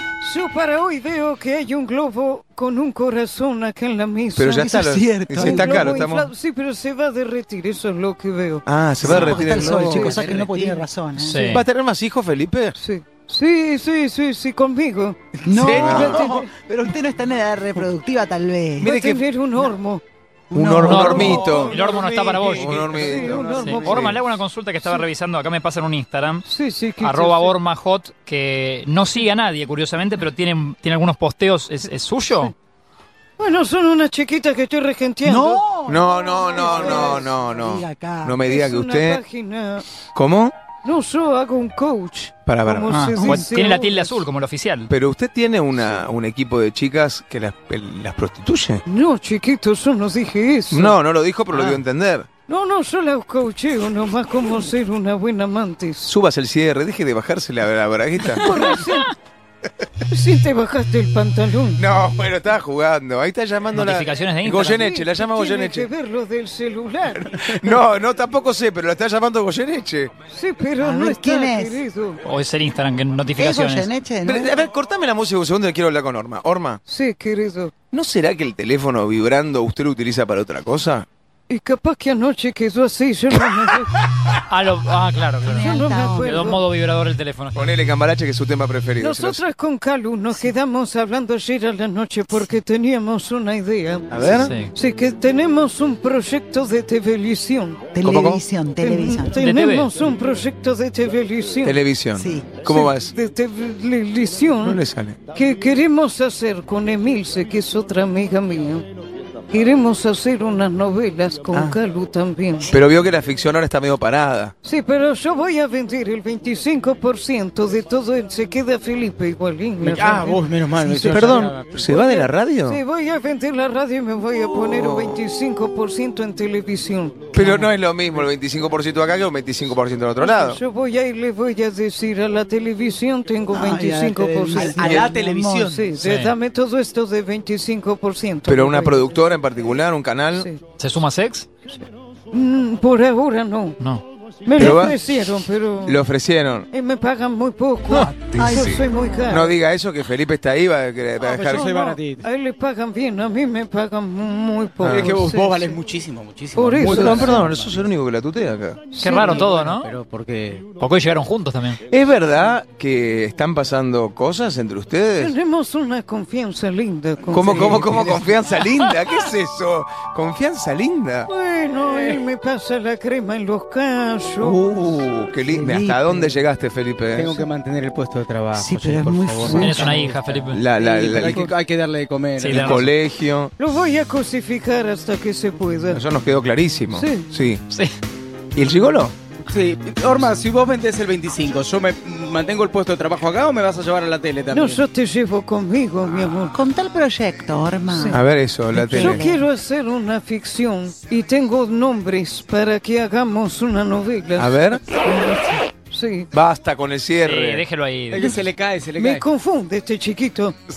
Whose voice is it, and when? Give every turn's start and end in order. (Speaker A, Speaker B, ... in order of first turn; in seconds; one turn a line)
Speaker A: 0.2-10.3
Speaker B: 4.3-6.3
Speaker C: 4.6-6.0
Speaker B: 8.7-10.3
Speaker C: 9.0-11.6
Speaker D: 9.0-9.5
Speaker E: 9.6-10.8
Speaker D: 11.2-11.6
Speaker B: 11.4-12.7
Speaker A: 12.8-16.5
Speaker C: 15.4-19.0
Speaker E: 15.5-16.0
Speaker B: 15.7-16.3
Speaker B: 18.8-19.2
Speaker A: 18.8-20.0
Speaker C: 20.5-21.5
Speaker B: 20.5-21.9
Speaker D: 20.8-22.8
Speaker E: 20.8-24.1
Speaker B: 22.4-24.2
Speaker A: 22.9-24.0
Speaker D: 23.4-26.4
Speaker A: 26.4-27.6
Speaker D: 27.0-32.5
Speaker A: 33.4-35.6
Speaker C: 35.2-38.4
Speaker B: 35.9-39.2
Speaker A: 36.7-37.3
Speaker A: 38.4-39.9
Speaker B: 40.1-40.5
Speaker A: 40.8-44.2
Speaker B: 42.5-42.9
Speaker D: 42.9-44.9
Speaker C: 43.2-43.4
Speaker B: 44.9-48.8
Speaker A: 48.9-51.0
Speaker B: 50.7-52.3
Speaker A: 52.5-56.1
Speaker B: 56.0-58.4
Speaker A: 58.4-59.1
Speaker D: 58.5-58.9
Speaker A: 60.1-61.8
Speaker B: 61.8-65.9
Speaker D: 63.7-64.8
Speaker A: 64.7-67.3
Speaker B: 67.2-70.1
Speaker A: 70.3-72.2
Speaker C: 70.8-71.8
Speaker D: 72.2-73.9
Speaker C: 73.4-74.5
Speaker B: 74.2-76.8
Speaker A: 76.8-77.7
Speaker B: 77.9-81.0
Speaker A: 81.5-84.0
Speaker D: 84.5-87.7
Speaker C: 85.4-86.5
Speaker A: 85.6-86.6
Speaker B: 87.5-89.4
Speaker A: 89.0-94.2
Speaker C: 92.3-92.6
Speaker B: 94.1-94.5
Speaker D: 94.3-94.7
Speaker A: 94.7-97.8
Speaker C: 97.9-99.4
Speaker B: 98.0-98.4
Speaker A: 98.8-101.8
Speaker D: 99.3-99.9
Speaker B: 101.6-103.1
Speaker C: 102.1-102.5
Speaker A: 102.6-104.8
Speaker B: 104.6-105.2
Speaker A: 105.3-108.8
Speaker A: 109.5-112.8
Speaker B: 112.7-114.5
Speaker A: 114.6-127.3
Speaker E: 119.8-121.9
Speaker B: 121.0-122.8
Speaker B: 124.6-125.2
Speaker C: 127.3-127.7
Speaker B: 127.3-130.6
Speaker A: 130.2-134.9
Speaker C: 133.5-135.8
Speaker E: 134.5-135.9
Speaker B: 134.7-135.1
Speaker A: 135.6-139.1
Speaker D: 136.0-136.3
Speaker B: 138.5-140.5
Speaker A: 140.3-140.6
Speaker D: 140.8-141.5
Speaker A: 141.7-143.8
Speaker A: 144.4-146.0
Speaker B: 144.5-145.0
Speaker B: 145.8-146.7
Speaker A: 146.7-149.5
Speaker C: 147.9-149.1
Speaker B: 148.3-151.8
Speaker E: 151.2-152.3
Speaker A: 151.4-155.8
Speaker B: 154.8-155.2
Speaker E: 154.8-157.9
Speaker A: 156.5-157.4
Speaker B: 156.8-159.0
Speaker A: 158.9-159.5
Speaker D: 159.0-159.9
Speaker E: 159.1-160.6
Speaker D: 160.8-161.8
Speaker B: 161.9-165.3
Speaker A: 165.2-168.2
Speaker B: 167.3-171.3
Speaker E: 167.4-168.8
Speaker A: 171.3-174.6
Speaker B: 174.4-177.4
Speaker C: 175.5-176.3
Speaker E: 177.1-182.9
Speaker C: 178.5-180.0
Speaker D: 179.4-180.6
Speaker B: 180.5-181.5
Speaker D: 182.4-182.9
Speaker B: 182.4-183.5
Speaker A: 183.6-186.0
Speaker B: 185.9-187.6
Speaker A: 186.9-187.3
Speaker B: 188.5-189.1
Speaker E: 189.4-194.8
Speaker A: 194.5-196.6
Speaker C: 196.4-199.4
Speaker A: 197.9-198.2
Speaker B: 198.1-199.3
Speaker A: 198.9-204.6
Speaker B: 204.3-204.8
Speaker C: 205.0-205.7
Speaker A: 205.9-206.3
Speaker B: 206.3-207.6
Speaker D: 207.2-208.3
Speaker E: 208.1-209.2
Speaker A: 209.0-210.6